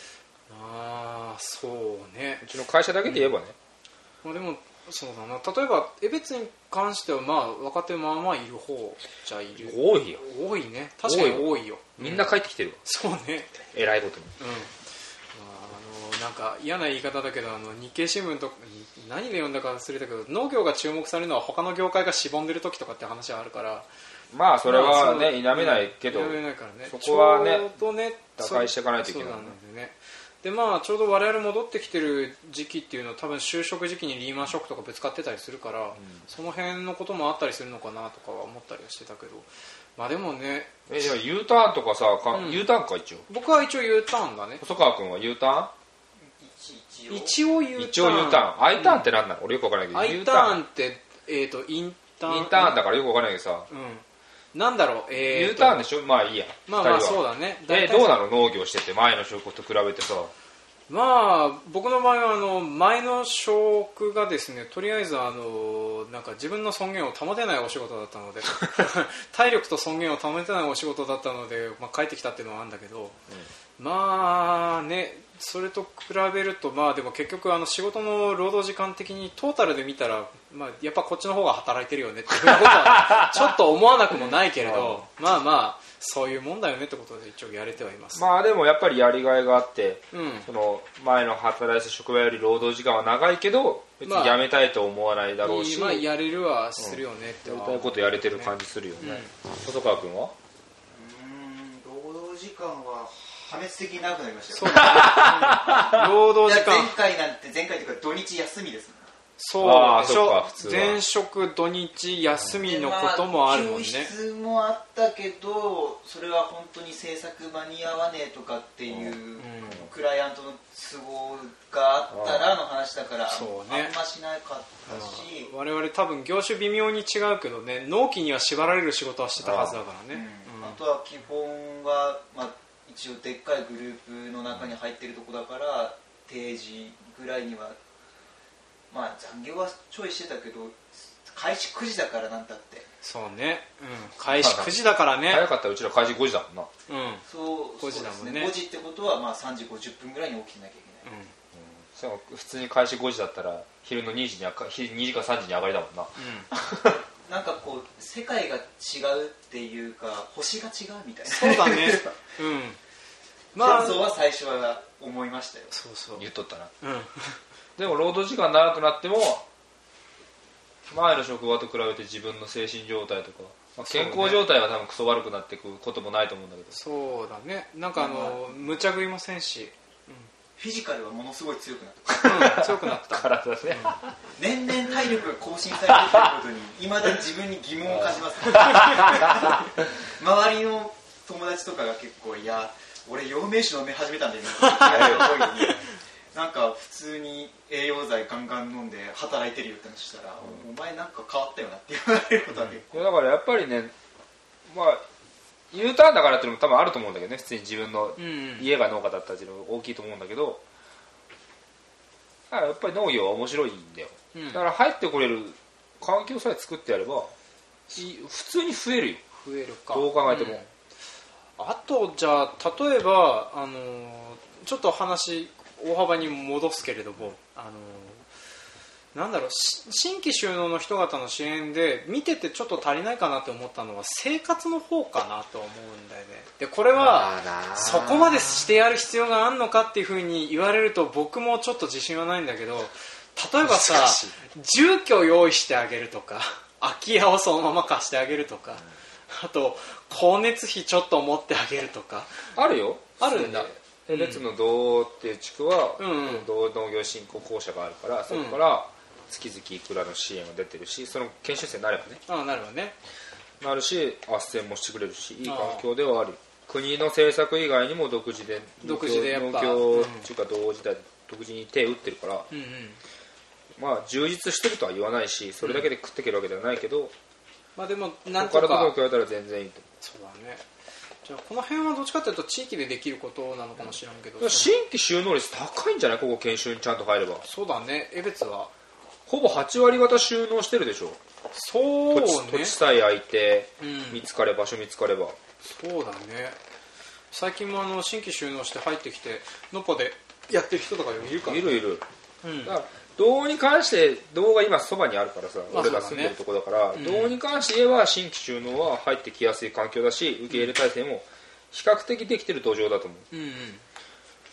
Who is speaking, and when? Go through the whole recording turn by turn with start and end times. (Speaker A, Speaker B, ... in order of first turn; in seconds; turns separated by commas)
Speaker A: 0.5-2.5, Speaker B: 2.4-3.6, Speaker A: 3.0-3.3, Speaker A: 4.2-12.3, Speaker B: 9.6-10.2, Speaker B: 11.1-12.8, Speaker A: 12.8-13.7, Speaker B: 13.7-14.3, Speaker A: 14.4-14.7, Speaker A: 15.3-23.9, Speaker B: 24.3-27.7, Speaker A: 24.7-40.7, Speaker B: 28.4-29.6, Speaker B: 36.0-36.2, Speaker B: 40.9-43.3, Speaker A: 42.3-42.7, Speaker A: 43.3-44.6, Speaker B: 44.6-45.7, Speaker C: 46.4-47.4, Speaker A: 47.1-49.1, Speaker B: 47.8-50.6, Speaker A: 49.9-52.8, Speaker B: 52.3-53.7, Speaker A: 53.7-55.9, Speaker B: 55.2-60.3, Speaker A: 56.7-58.1, Speaker A: 60.9-73.2, Speaker A: 73.8-88.2, Speaker B: 82.4-83.6, Speaker B: 84.1-85.0, Speaker B: 88.1-96.1, Speaker A: 90.1-90.5, Speaker A: 94.0-94.5, Speaker A: 95.4-99.3, Speaker B: 96.8-100.3, Speaker C: 100.9-109.1, Speaker A: 104.5-107.0, Speaker B: 104.7-106.1, Speaker A: 109.4-114.1, Speaker B: 109.6-111.0, Speaker C: 112.6-125.5, Speaker A: 119.4-119.9, Speaker B: 122.1-122.5, Speaker A: 123.3-124.0, Speaker A: 124.9-130.8, Speaker B: 129.4-129.8, Speaker C: 130.1-137.8, Speaker C: 138.9-142.9, Speaker A: 143.0-145.5, Speaker B: 144.3-146.7, Speaker A: 146.9-147.2, Speaker C: 147.3-151.1, Speaker A: 147.8-148.5, Speaker A: 151.0-151.3, Speaker B: 151.5-157.0, Speaker A: 156.2-156.5, Speaker C: 157.2-162.2, Speaker A: 161.3-162.8, Speaker A: 163.6-164.1, Speaker C: 163.6-165.7, Speaker A: 165.7-166.3, Speaker B: 166.2-166.7, Speaker A: 166.8-167.4, Speaker B: 167.8-169.5, Speaker B: 170.9-176.8, Speaker A: 173.8-174.4, Speaker A: 176.7-180.3, Speaker C: 178.0-178.5, Speaker C: 180.6-182.6, Speaker B: 182.1-184.2, Speaker A: 182.2-184.0, Speaker C: 184.4-203.1, Speaker B: 185.9-186.3, Speaker B: 188.0-189.8, Speaker A: 194.6-195.7, Speaker B: 194.8-195.5, Speaker B: 202.9-203.9, Speaker B: 204.7-205.0, Speaker B: 205.7-210.6, Speaker A: 208.2-208.7, Speaker B: 212.5-217.3, Speaker A: 214.3-214.6, Speaker B: 217.9-219.3, Speaker A: 219.4-220.7, Speaker B: 219.9-220.6, Speaker A: 221.6-228.2, Speaker A: 229.1-252.5, Speaker B: 236.9-238.7, Speaker B: 243.6-244.4, Speaker B: 252.6-262.2, Speaker A: 253.2-254.4, Speaker A: 256.0-256.5, Speaker A: 258.3-258.6, Speaker A: 262.3-263.0, Speaker B: 263.6-272.5, Speaker A: 265.4-265.9, Speaker A: 268.8-270.3, Speaker A: 272.5-273.0, Speaker B: 273.8-277.1, Speaker A: 275.6-275.9, Speaker A: 277.8-279.0, Speaker B: 278.4-279.9, Speaker A: 280.0-280.6, Speaker A: 281.2-284.8, Speaker B: 284.4-287.4, Speaker A: 287.4-288.7, Speaker B: 289.3-291.2, Speaker A: 291.5-292.8, Speaker B: 292.1-295.4, Speaker A: 293.8-294.3, Speaker A: 295.6-296.6, Speaker A: 297.3-301.9, Speaker B: 301.4-302.1, Speaker A: 302.4-302.7, Speaker B: 302.6-313.3, Speaker A: 305.7-306.4, Speaker A: 306.9-307.4, Speaker A: 313.3-313.8